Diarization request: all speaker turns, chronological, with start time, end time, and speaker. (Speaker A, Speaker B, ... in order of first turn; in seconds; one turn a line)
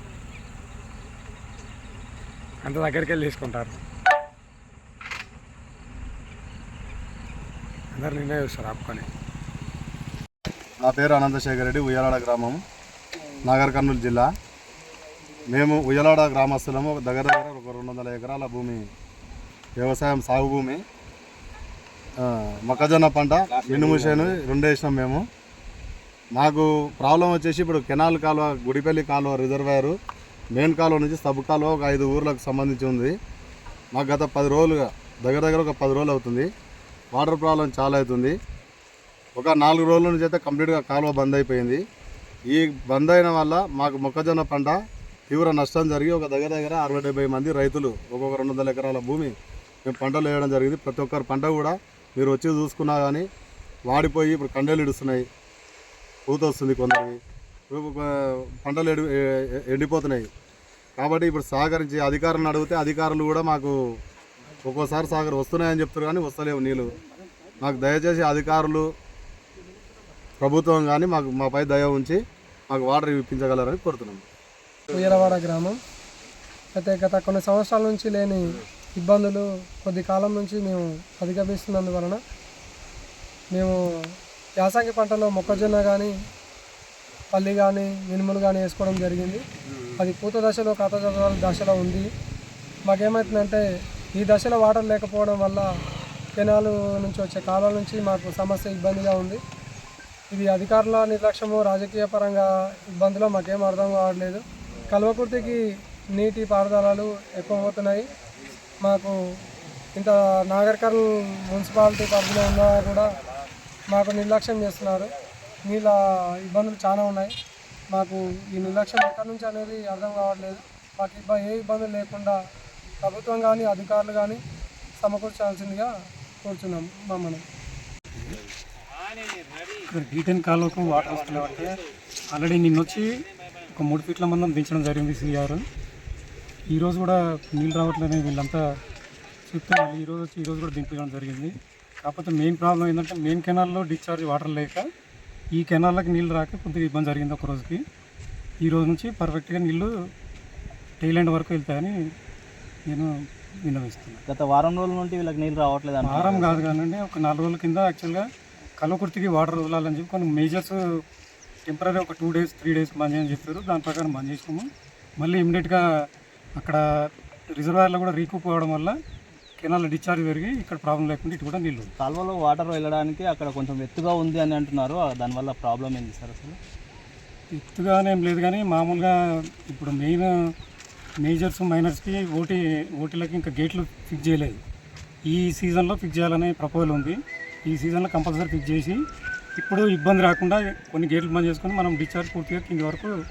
Speaker A: 2.6-3.8
Speaker A: 8.0-9.1
Speaker B: 10.8-12.6
Speaker B: 13.4-14.3
Speaker B: 15.5-18.9
Speaker B: 19.8-20.8
Speaker B: 22.2-25.2
Speaker B: 26.4-30.0
Speaker B: 30.6-33.1
Speaker B: 34.0-36.5
Speaker B: 37.1-38.4
Speaker B: 39.4-41.8
Speaker B: 42.5-44.8
Speaker B: 45.3-49.3
Speaker B: 49.9-53.3
Speaker B: 53.9-55.3
Speaker B: 56.3-57.2
Speaker B: 57.7-60.3
Speaker B: 61.0-63.8
Speaker B: 64.6-66.9
Speaker B: 67.6-68.9
Speaker B: 70.4-72.2
Speaker B: 72.7-74.2
Speaker C: 74.9-75.8
Speaker C: 76.8-82.2
Speaker C: 84.6-86.1
Speaker C: 87.3-89.4
Speaker C: 90.0-92.1
Speaker C: 92.9-93.6
Speaker C: 94.2-95.7
Speaker C: 96.4-99.4
Speaker C: 100.3-102.5
Speaker C: 103.0-105.6
Speaker C: 106.2-108.1
Speaker C: 108.8-109.2
Speaker C: 110.0-113.1
Speaker C: 113.9-115.1
Speaker C: 115.7-117.3
Speaker C: 117.9-122.4
Speaker C: 123.0-124.4
Speaker C: 125.0-125.9
Speaker C: 126.4-127.4
Speaker D: 129.9-131.7
Speaker D: 132.3-133.1
Speaker D: 133.8-135.6
Speaker D: 136.7-138.6
Speaker D: 139.5-144.8
Speaker D: 145.5-147.8
Speaker D: 148.6-149.9
Speaker D: 151.0-151.9
Speaker D: 153.7-154.2
Speaker E: 154.3-156.7
Speaker D: 156.1-158.2
Speaker D: 158.8-160.8
Speaker D: 161.7-164.7
Speaker D: 165.2-165.8
Speaker D: 167.5-168.9
Speaker D: 169.6-171.9
Speaker E: 172.0-176.6
Speaker D: 177.5-179.2
Speaker D: 179.7-180.3
Speaker D: 181.2-184.6
Speaker D: 185.3-189.0
Speaker D: 189.6-193.1